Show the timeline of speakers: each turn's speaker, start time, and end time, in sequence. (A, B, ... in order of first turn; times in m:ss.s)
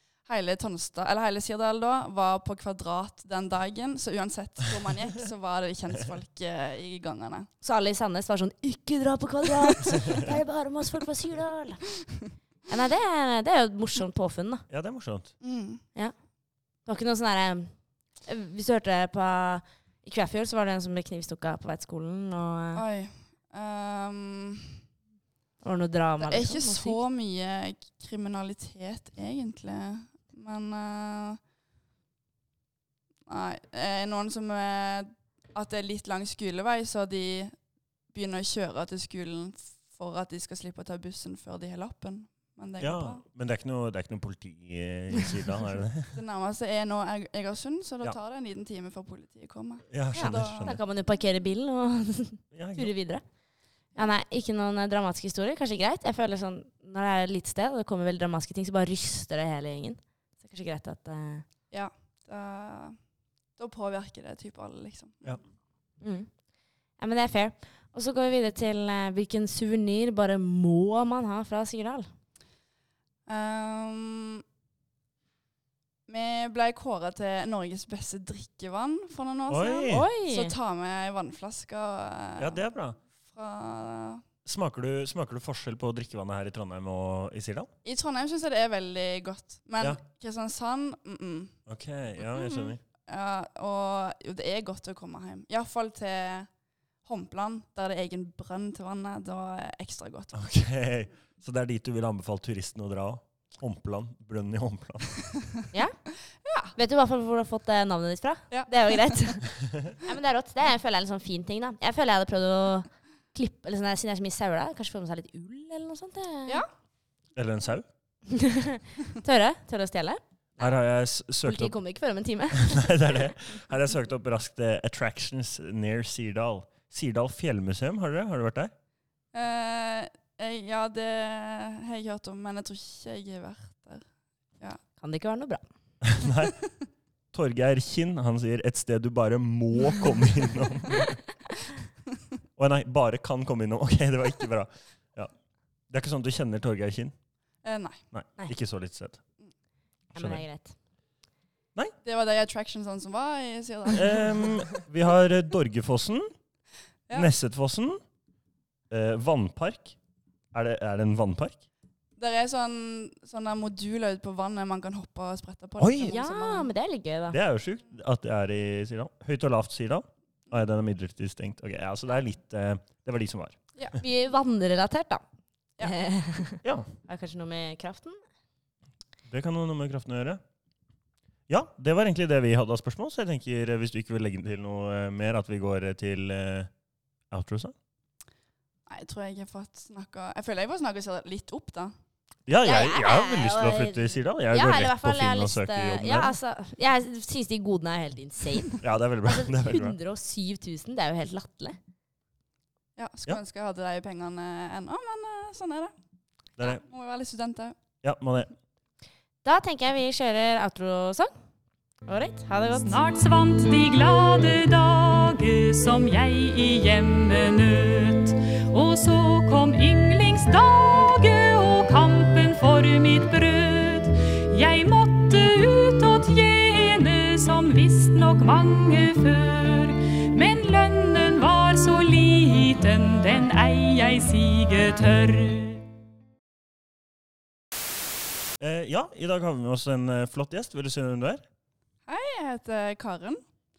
0:00.2-0:07.5 A
0:07.6-0:11.8 B
0:12.7-0:14.6 B
0:14.7-0:15.3 C
0:15.4-0:15.8 A
0:16.8-0:22.8 B
0:22.7-0:24.8 A
0:25.6-0:27.0 B
0:26.2-0:31.4 A
0:33.3-0:37.5 A
0:38.1-0:43.2 A
0:42.8-0:46.1 C
0:46.1-0:50.8 A
0:49.9-0:50.8 C
0:50.1-0:53.2 B
0:52.5-0:52.9 C
0:54.0-1:01.4 B
1:01.7-1:03.0 A
1:03.6-1:05.3 A
1:06.0-1:06.3 B
1:07.0-1:12.1 B
1:13.3-1:14.4 A
1:16.1-1:22.6 A
1:19.5-1:20.1 C
1:19.9-1:20.5 B
1:22.4-1:23.0 C
1:23.2-1:24.2 A
1:24.4-1:27.7 C
1:27.8-1:31.5 A
1:31.7-1:32.8 C
1:32.3-1:32.7 B
1:33.1-1:36.5 A
1:37.0-1:40.4 A
1:40.3-1:45.0 C
1:46.4-1:46.7 A
1:46.7-1:56.6 B
1:48.5-1:49.0 A
1:57.3-1:57.8 C
1:58.3-2:00.7 B
2:00.6-2:01.7 C
2:01.4-2:02.9 B
2:02.5-2:08.7 C
2:09.3-2:14.0 A
2:15.0-2:15.6 B
2:16.0-2:16.6 C
2:17.3-2:21.2 C
2:22.6-2:25.3 C
2:25.9-2:27.1 C
2:27.6-2:28.0 A
2:28.1-2:29.2 C
2:30.1-2:30.7 B
2:30.1-2:30.4 C
2:32.0-2:34.3 A
2:33.9-2:36.3 C
2:37.1-2:38.0 C
2:38.9-2:40.0 C
2:40.5-2:41.6 C
2:42.2-2:46.7 A
2:45.8-2:46.2 C
2:46.0-2:47.4 B
2:47.3-2:53.6 C
2:54.0-2:55.2 B
2:55.8-2:58.2 B
2:56.6-2:56.9 C
2:59.3-3:00.4 C
3:01.5-3:06.7 C
3:07.3-3:07.7 C
3:08.9-3:11.9 A
3:12.4-3:16.3 C
3:12.6-3:21.8 B
3:18.8-3:20.0 C
3:23.0-3:25.9 A
3:26.6-3:26.8 C
3:26.6-3:27.8 A
3:28.0-3:28.5 C
3:29.4-3:31.3 B
3:32.0-3:33.0 B
3:32.8-3:55.9 D
3:58.6-4:01.4 C
4:02.1-4:03.4 A